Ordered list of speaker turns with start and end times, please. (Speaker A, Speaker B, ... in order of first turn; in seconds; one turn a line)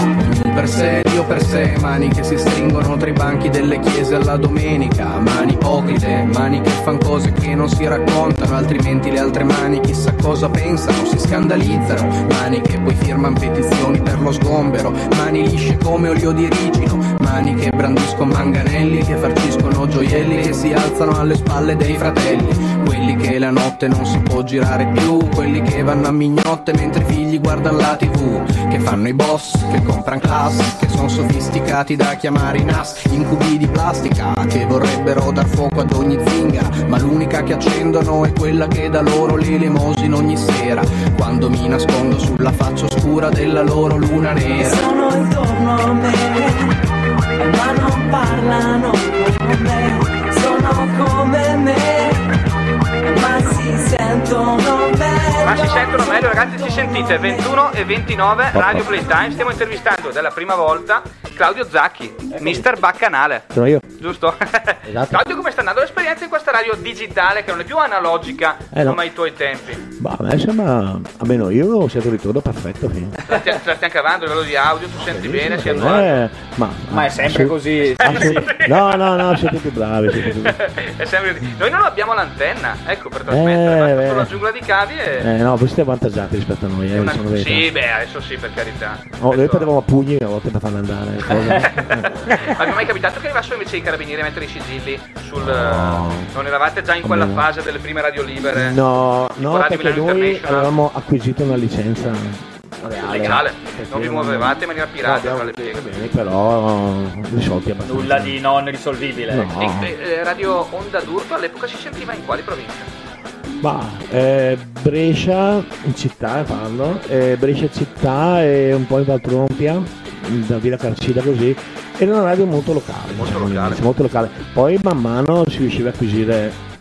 Speaker A: 0.1-44.9
Speaker B: 44.6-46.8
Speaker B: 47.4-52.4
Speaker B: 53.0-57.5
Speaker C: 55.4-69.8
Speaker D: 58.5-58.9
Speaker D: 63.5-63.9
Speaker D: 64.8-65.2
Speaker D: 68.7-69.0
Speaker D: 69.9-73.2
Speaker C: 73.3-76.2
Speaker D: 75.0-80.6
Speaker E: 76.9-78.5
Speaker C: 78.0-79.5
Speaker C: 80.2-85.3
Speaker D: 83.3-84.3
Speaker D: 85.2-87.7
Speaker C: 86.9-89.7
Speaker D: 89.2-92.7
Speaker C: 91.7-98.8
Speaker D: 95.4-96.3
Speaker D: 97.0-97.5
Speaker D: 98.5-108.4
Speaker C: 99.4-100.7
Speaker C: 103.0-105.9
Speaker E: 107.8-109.5
Speaker D: 109.3-109.9
Speaker C: 109.6-112.9
Speaker D: 113.6-126.6
Speaker C: 123.2-123.8